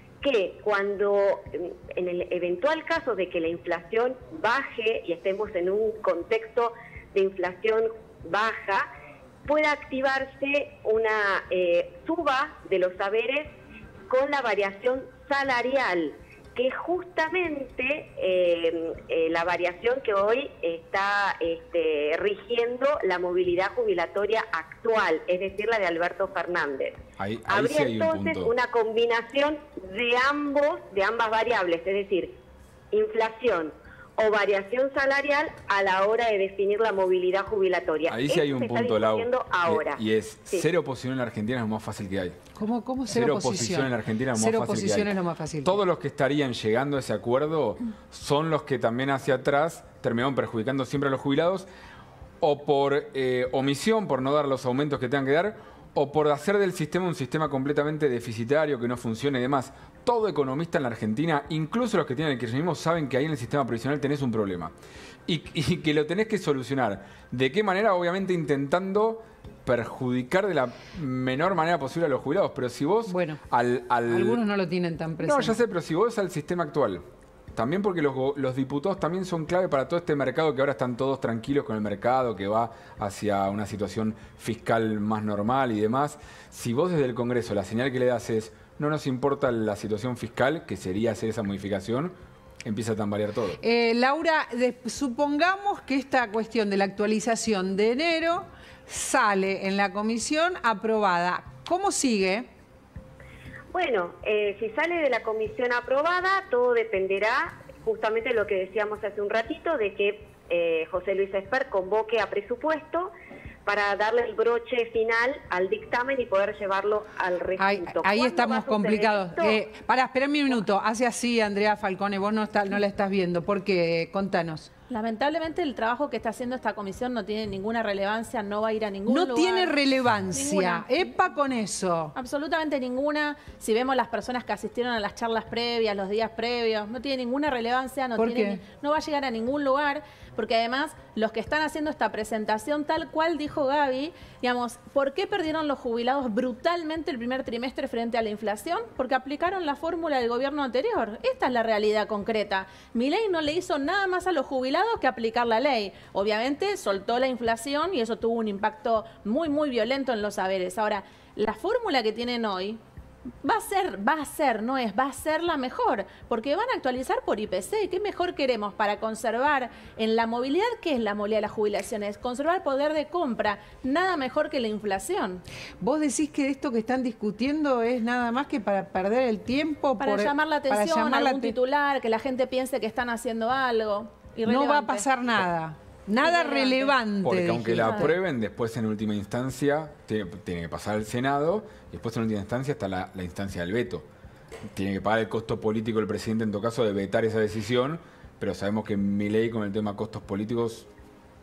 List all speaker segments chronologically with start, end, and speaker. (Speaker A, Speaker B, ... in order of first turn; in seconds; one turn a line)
Speaker A: 0.2-8.8
Speaker A: 9.5-13.5
Speaker A: 14.1-32.3
Speaker B: 27.2-28.5
Speaker A: 32.9-40.7
Speaker B: 38.1-42.4
Speaker C: 42.5-45.8
Speaker B: 43.1-51.7
Speaker B: 52.4-64.7
Speaker B: 65.3-74.4
Speaker C: 73.1-73.4
Speaker C: 74.1-75.5
Speaker B: 75.2-77.0
Speaker B: 77.5-93.6
Speaker C: 93.6-102.5
Speaker A: 103.7-113.1
Speaker A: 113.6-119.6
Speaker C: 117.6-124.7
Speaker D: 124.9-129.8
Speaker C: 129.1-132.1
Speaker D: 130.3-131.1
Speaker D: 132.1-162.8
Speaker C: 138.2-138.6
Speaker D: 163.4-175.4
Speaker C: 175.8-181.6
Speaker D: 180.0-185.1
Speaker C: 184.4-188.1
Speaker D: 186.2-187.0
Speaker B: 187.2-194.0
Speaker D: 187.8-188.1
Speaker B: 194.7-200.9